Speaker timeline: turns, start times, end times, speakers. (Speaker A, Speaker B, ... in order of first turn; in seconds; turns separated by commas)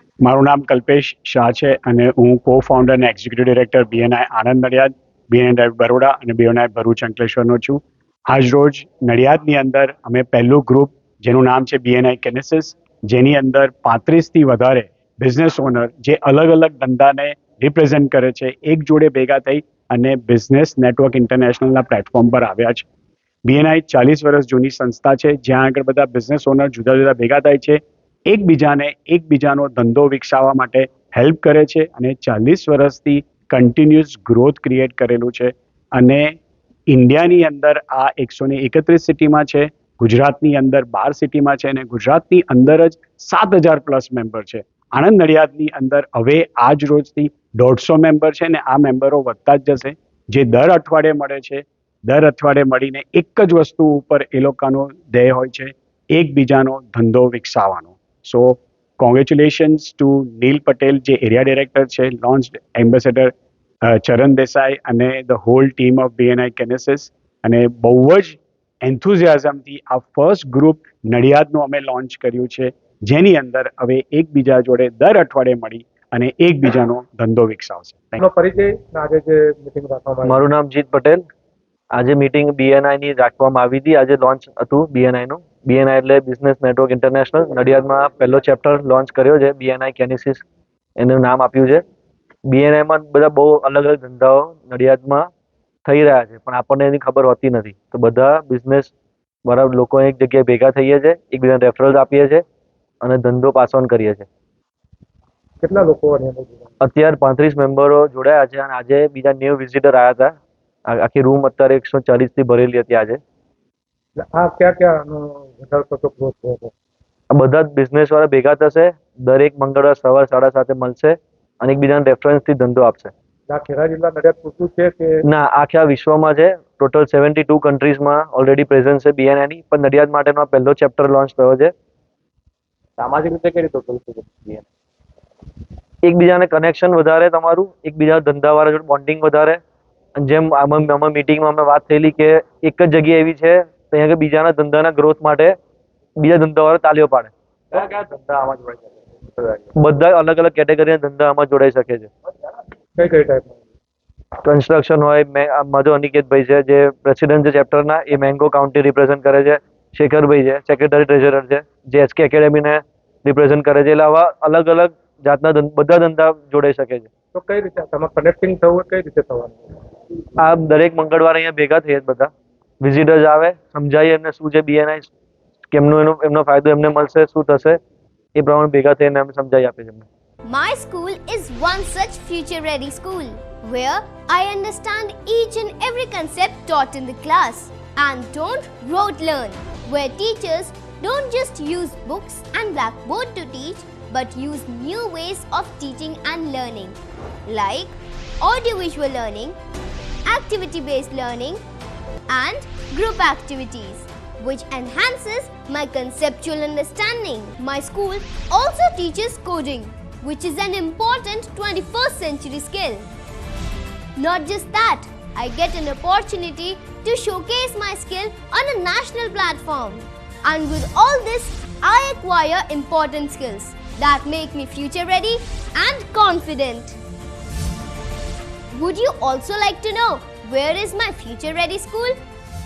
Speaker A: 0.2-22.9, Speaker A: 23.4-36.4, Speaker A: 36.9-63.3, Speaker A: 63.9-78.2, Speaker B: 78.2-80.4, Speaker C: 80.2-81.2, Speaker C: 81.9-90.4, Speaker C: 91.0-91.8, Speaker C: 92.5-95.3, Speaker C: 95.8-98.9, Speaker C: 99.4-102.4, Speaker C: 103.0-104.2, Speaker B: 105.6-106.7, Speaker C: 106.8-113.2, Speaker B: 114.2-116.7, Speaker C: 117.3-123.1, Speaker B: 123.5-125.1, Speaker C: 125.2-131.7, Speaker B: 133.0-134.6, Speaker C: 136.0-139.6, Speaker C: 140.2-145.5, Speaker C: 146.2-147.3, Speaker B: 147.9-148.8, Speaker C: 149.7-152.1, Speaker B: 152.9-153.6, Speaker C: 154.4-167.1, Speaker B: 167.3-169.7, Speaker C: 170.4-175.1, Speaker C: 175.7-177.8, Speaker C: 178.3-180.1, Speaker D: 180.4-199.6, Speaker D: 200.2-201.6, Speaker D: 202.3-213.1, Speaker D: 214.2-227.0, Speaker D: 228.7-232.2